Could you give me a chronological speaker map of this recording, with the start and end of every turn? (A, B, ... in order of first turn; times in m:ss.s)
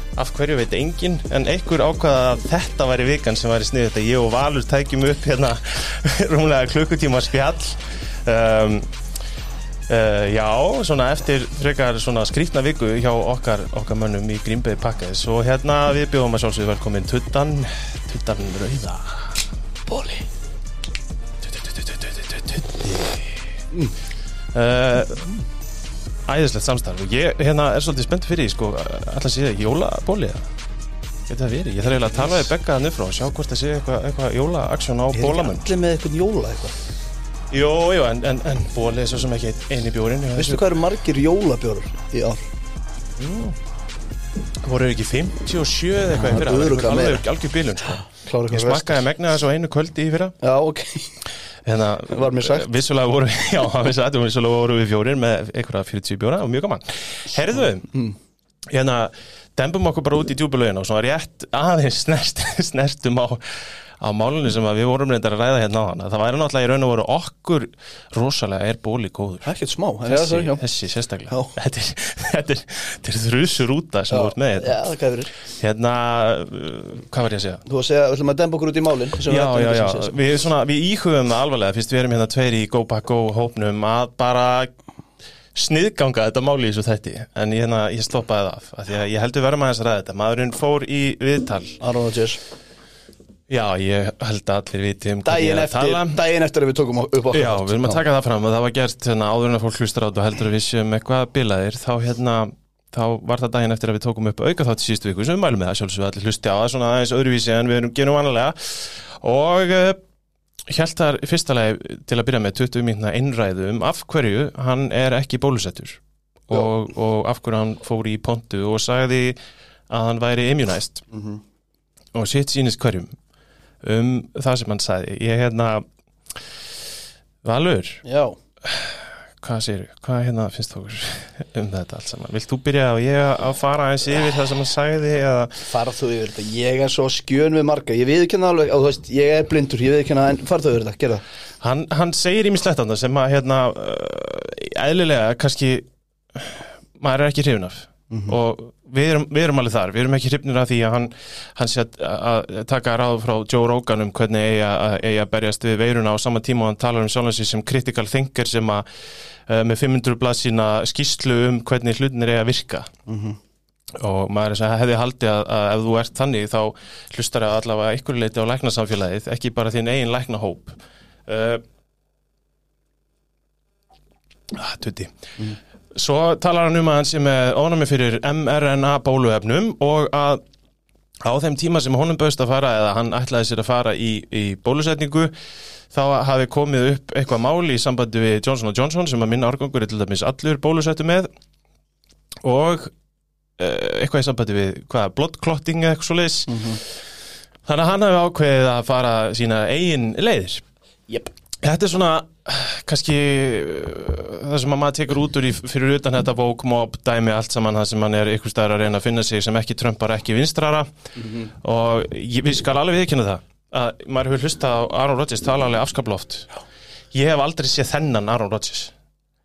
0:00.2-0:08.9 A
0:09.9-0:19.4 A
0:19.9-0:20.3 B
0:21.4-0:23.6 A
0:24.5-0:25.4 A
0:26.3-0:30.5 A
0:31.3-0:35.7 A
0:35.1-0:36.8 B
0:37.5-0:40.6 A
0:40.4-0:42.4 B
0:43.2-0:43.6 A
0:44.6-0:50.4 A
0:46.2-0:47.2 B
0:48.2-0:49.0 B
0:50.4-0:51.2 B
0:51.6-0:57.9 A
0:52.1-0:52.7 B
0:58.7-1:09.5 A
1:09.4-1:10.6 B
1:10.0-1:14.8 A
1:11.3-1:11.6 B
1:14.1-1:15.3 B
1:15.5-1:17.6 A
1:17.7-1:20.2 B
1:19.2-1:24.7 A
1:25.6-1:31.8 A
1:31.8-1:32.4 B
1:33.5-1:36.2 A
1:35.3-1:38.0 B
1:37.3-1:50.0 A
1:50.7-1:59.4 A
1:59.9-2:01.1 A
2:01.1-2:01.4 B
2:02.1-2:03.2 A
2:03.8-2:06.5 A
2:07.4-2:08.0 A
2:08.0-2:08.4 B
2:08.6-2:15.6 A
2:15.7-2:21.2 B
2:21.6-2:38.8 A
2:28.1-2:28.4 B
2:39.5-2:42.9 A
2:43.1-2:43.4 B
2:44.0-2:51.6 A
2:54.5-2:55.2 A
2:55.9-3:00.4 A
3:01.2-3:05.3 A
3:05.9-3:11.3 A
3:12.4-3:12.9 A
3:13.6-3:17.0 A
3:16.5-3:16.8 B
3:17.6-3:20.6 A
3:21.6-3:30.9 A
3:31.2-3:31.5 B
3:31.6-3:36.5 A
3:37.1-3:38.9 A